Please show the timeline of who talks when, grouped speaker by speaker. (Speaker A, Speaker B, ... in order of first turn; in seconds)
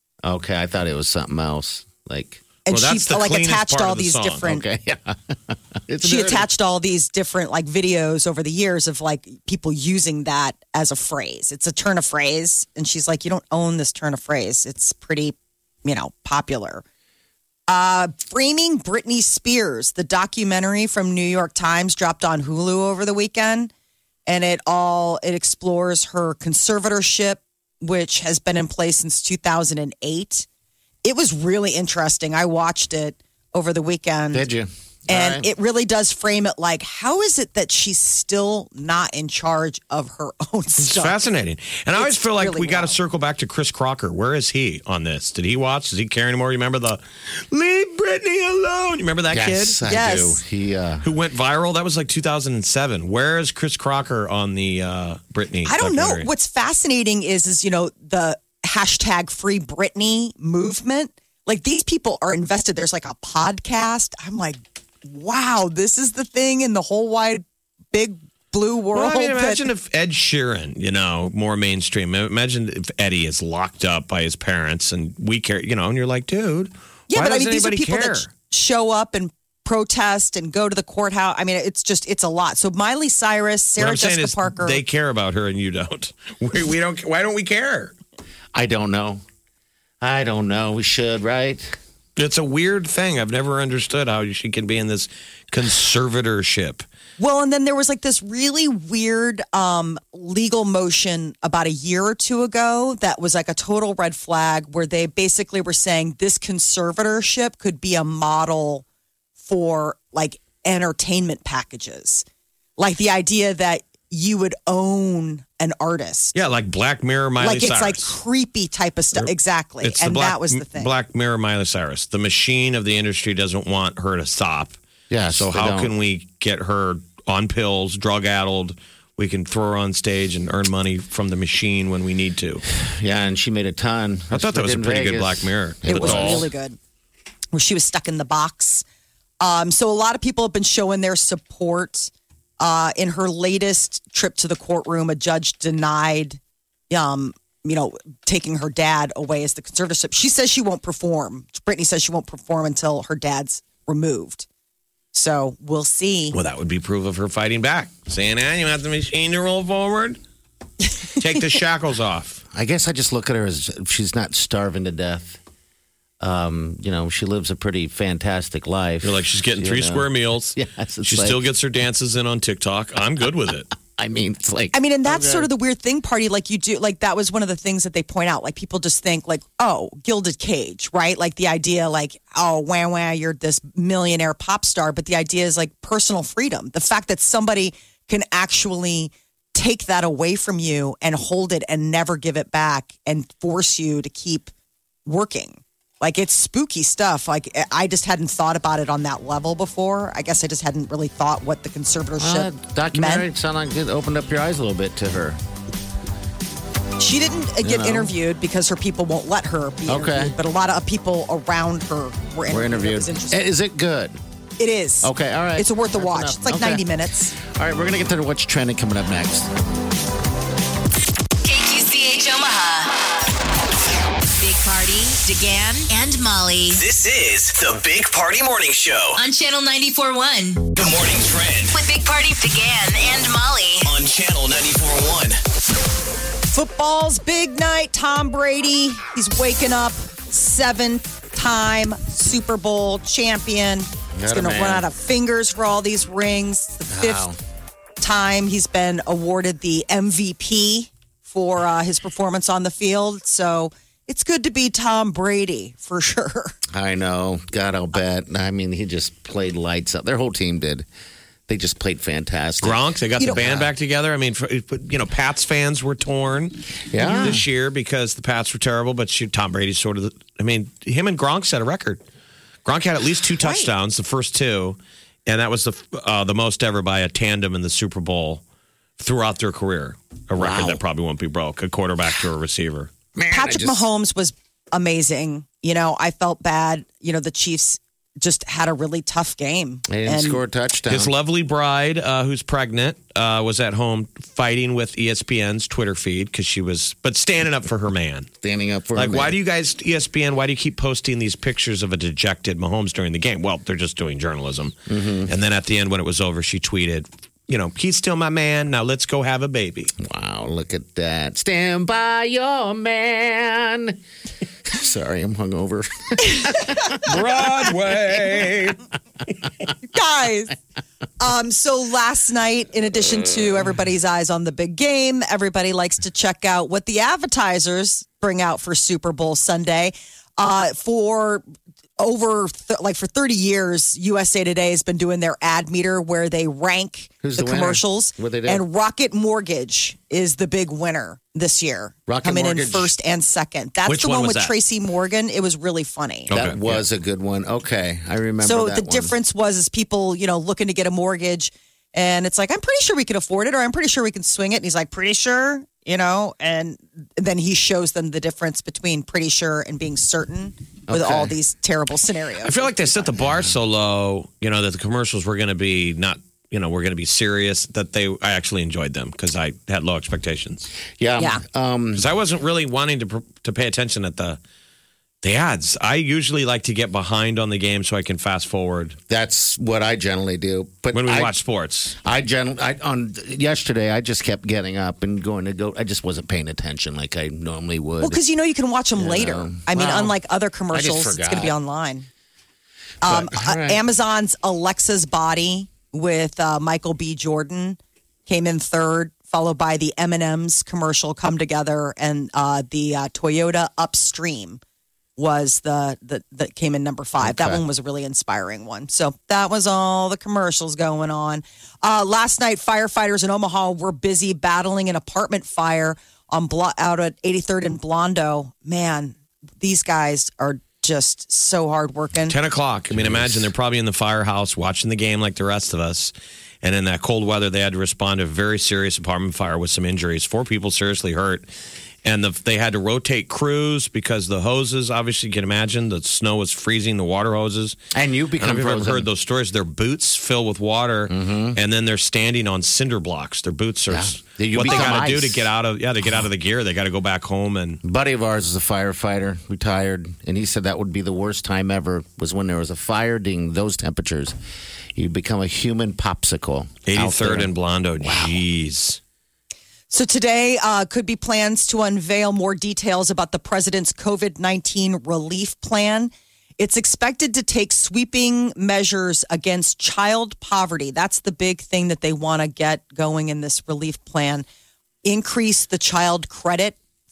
Speaker A: 0.2-2.4, 4.4-6.5, 34.3-35.5, 49.3-51.1, 88.5-89.2, 90.0-91.8, 125.1-125.9, 132.7-136.5, 162.5-165.4, 166.2-171.4, 173.9-175.5, 202.2-205.4, 207.6-208.1, 209.9-210.3, 212.5-214.2, 215.0-216.8, 217.4-219.5, 244.1-244.9, 246.9-247.4, 256.7-260.9, 261.5-263.7, 266.9-267.4, 280.4-280.8, 283.1-283.8, 289.9-291.1, 298.4-299.4, 304.9-305.3, 310.0-314.0, 314.7-317.1, 337.2-338.6, 342.1-342.9, 346.3-349.1, 360.9-361.3, 371.0-372.1, 379.1-381.3, 382.0-388.2, 389.0-390.2, 390.7-391.6, 393.0-393.8, 407.2-407.6, 422.9-423.5, 437.9-439.1, 441.1-441.6, 443.9-445.5, 447.8-454.4, 454.9-458.4
Speaker B: 2.7-4.6, 6.0-16.8, 17.7-23.7, 24.3-30.5, 31.0-34.5, 35.1-41.2, 42.0-43.0, 49.9-50.4, 55.6-69.7, 77.1-84.8, 97.2-108.8, 109.4-112.2, 112.8-116.3, 117.4-120.9, 135.9-136.8, 137.5-138.8, 139.4-146.4, 146.9-154.5, 155.1-156.3, 174.7-194.5, 195.1-203.3, 207.0-213.4, 214.6-217.3, 236.5-247.3, 248.0-256.6, 267.0-267.3, 273.4-273.7, 283.3-290.4, 319.9-320.6, 321.2-331.4, 332.0-346.3, 348.4-362.6, 388.0-392.1, 393.0-404.6, 405.2-422.4, 459.9-474.5, 475.1-476.8
Speaker C: 2.7-4.5, 40.8-49.8, 51.0-56.3, 68.9-78.3, 83.8-88.0, 92.2-96.8, 116.3-118.1, 119.8-124.8, 125.3-132.6, 134.3-136.5, 156.3-160.2, 161.2-162.4, 169.0-173.7, 262.6-272.0, 272.6-278.4, 279.0-282.9, 290.9-298.3, 298.9-304.7, 305.3-309.9, 317.0-318.8, 343.9-344.5, 346.3-346.8, 362.4-370.7, 372.0-374.4, 375.2-379.0, 380.9-382.0, 422.3-431.5, 432.1-437.8, 438.4-447.8, 456.9-459.0
Speaker D: 221.4-223.1, 224.4-226.8, 229.2-230.7, 231.7-233.9
Speaker E: 226.7-229.2, 230.8-231.8, 233.8-235.4